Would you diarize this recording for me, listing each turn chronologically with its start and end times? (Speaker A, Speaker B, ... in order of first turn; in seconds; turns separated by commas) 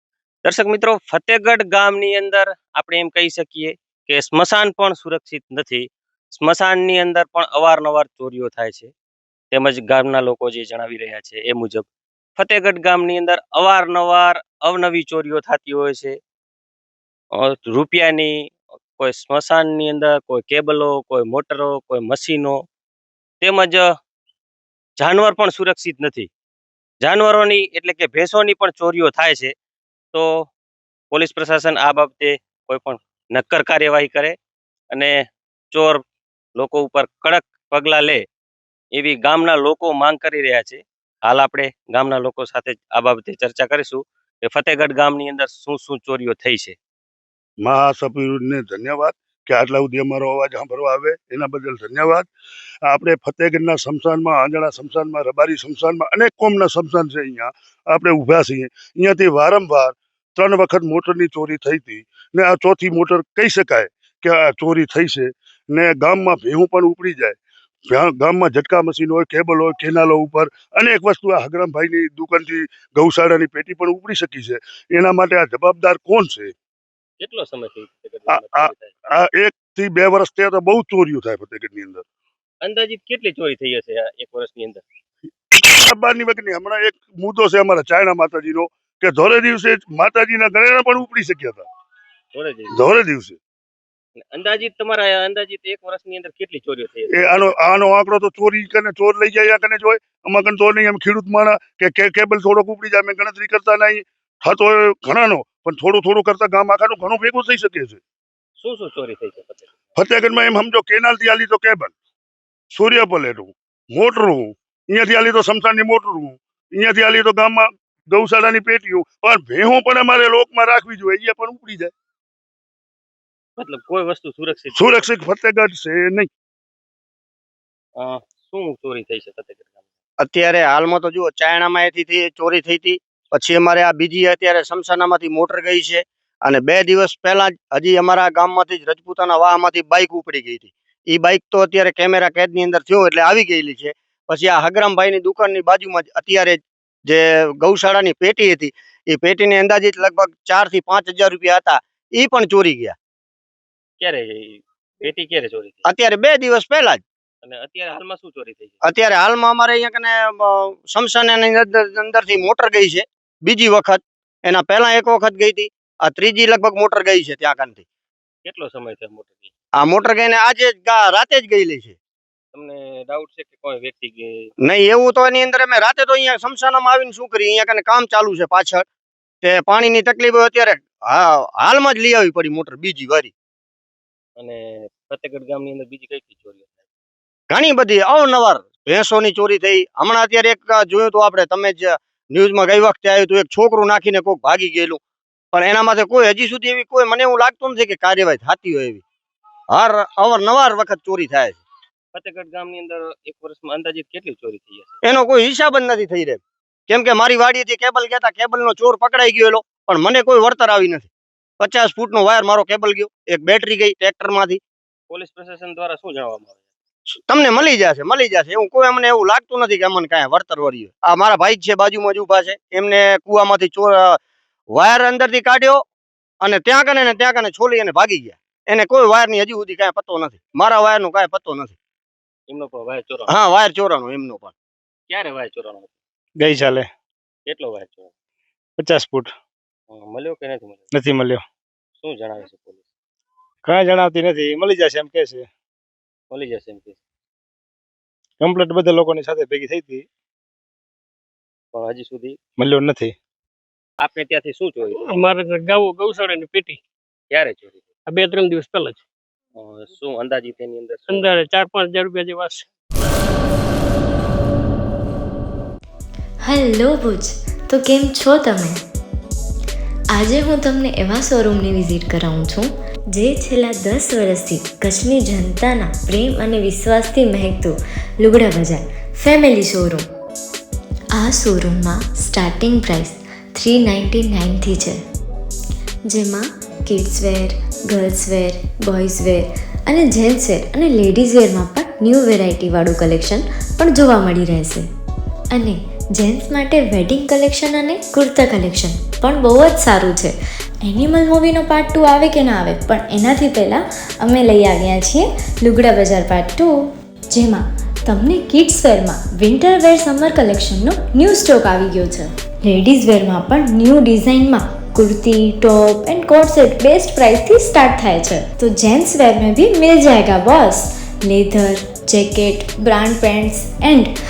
Speaker A: 0.4-8.9, Speaker A: 9.5-11.8, Speaker A: 12.4-16.2, Speaker A: 17.4-22.6, Speaker A: 23.4-23.9, Speaker A: 25.0-26.3, Speaker A: 27.0-29.5, Speaker A: 30.1-30.5, Speaker A: 31.1-34.4, Speaker A: 35.7-36.0, Speaker A: 36.6-38.2, Speaker A: 39.0-46.8, Speaker B: 47.6-52.3, Speaker B: 52.9-67.4, Speaker B: 67.9-76.5, Speaker A: 77.2-78.9, Speaker B: 78.3-82.0, Speaker A: 82.6-84.8, Speaker B: 85.8-91.7, Speaker A: 92.3-92.8, Speaker B: 92.7-93.4, Speaker A: 94.3-97.5, Speaker B: 97.1-108.0, Speaker A: 108.6-109.7, Speaker B: 110.0-111.9, Speaker B: 112.7-121.9, Speaker A: 123.6-125.1, Speaker B: 124.7-126.3, Speaker A: 128.0-129.8, Speaker C: 130.2-152.9, Speaker A: 154.0-155.8, Speaker C: 155.8-157.0, Speaker A: 157.4-158.8, Speaker C: 158.8-167.8, Speaker A: 168.5-169.5, Speaker C: 169.8-172.0, Speaker A: 172.5-174.5, Speaker C: 174.6-178.8, Speaker C: 179.4-183.3, Speaker A: 184.4-186.8, Speaker C: 187.5-195.0, Speaker C: 195.5-199.0, Speaker C: 199.7-201.6, Speaker A: 202.1-205.0, Speaker C: 205.0-211.1, Speaker C: 211.6-214.6, Speaker A: 215.1-216.6, Speaker C: 217.2-224.2, Speaker C: 224.7-225.8, Speaker C: 226.4-231.8, Speaker A: 232.5-233.3, Speaker C: 233.3-234.5, Speaker A: 235.1-236.0, Speaker D: 236.4-236.9, Speaker A: 237.5-238.1, Speaker D: 238.8-239.3, Speaker A: 239.9-240.9, Speaker D: 240.9-241.4, Speaker A: 242.0-242.9, Speaker D: 243.7-245.5, Speaker A: 246.3-247.0, Speaker D: 248.4-250.1, Speaker A: 251.7-252.4, Speaker D: 252.6-253.2, Speaker A: 254.0-255.2, Speaker E: 255.1-256.8, Speaker A: 257.3-257.9, Speaker E: 258.1-259.1, Speaker A: 259.6-261.4, Speaker E: 261.1-262.7, Speaker F: 266.4-268.8, Speaker F: 270.1-280.1, Speaker F: 281.2-285.0, Speaker F: 286.1-294.9, Speaker F: 295.5-300.4, Speaker G: 300.8-306.7, Speaker G: 307.3-324.1